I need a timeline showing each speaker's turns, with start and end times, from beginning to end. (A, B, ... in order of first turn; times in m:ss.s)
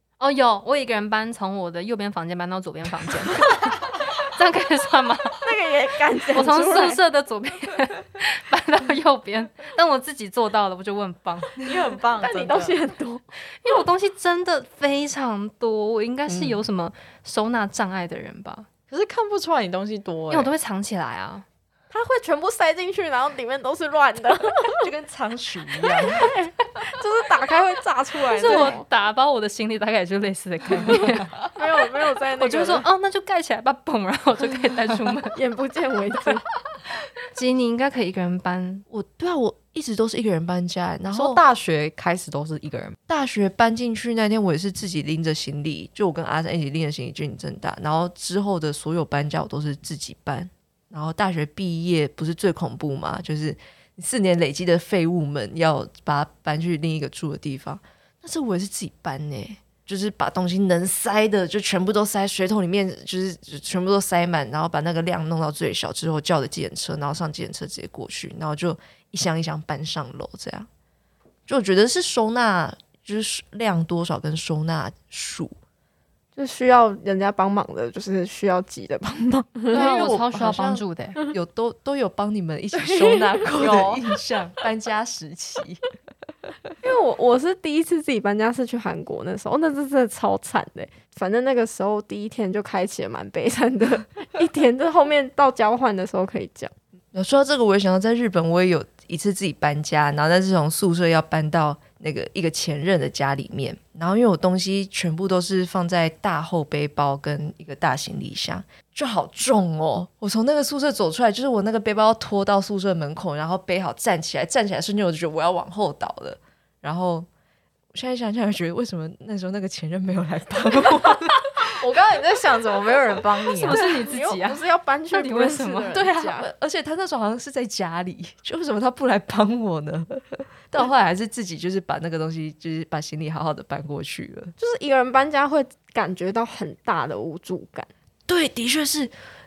0:00.2-0:05.4 A
0:05.4-0:07.0 B
0:06.3-0:11.5 A
0:11.6-0:12.8 C
0:12.2-0:13.3 B
0:13.6-0:18.7 A
0:16.3-0:16.6 D
0:18.9-0:20.5 C
0:20.3-0:21.4 A
0:21.9-0:24.9 B
0:24.8-0:26.4 D
0:25.8-0:28.9 B
0:28.3-0:31.3 A
0:30.8-0:32.9 B
0:32.4-0:35.4 A
0:35.3-0:36.4 B
0:37.3-0:38.9 A
0:38.9-0:41.4 D
0:41.1-0:43.0 C
0:43.1-1:10.7 D
1:11.5-1:15.6 D
1:16.4-1:19.9 B
1:19.7-1:25.9 D
1:19.7-1:21.2 A
1:22.7-1:24.0 B
1:26.8-1:36.7 B
1:37.1-1:57.3 D
1:57.9-2:01.8 D
2:01.7-2:03.8 C
2:03.6-2:06.0 A
2:03.7-2:06.5 B
2:05.9-2:14.5 D
2:14.6-2:17.9 B
2:18.3-2:19.1 D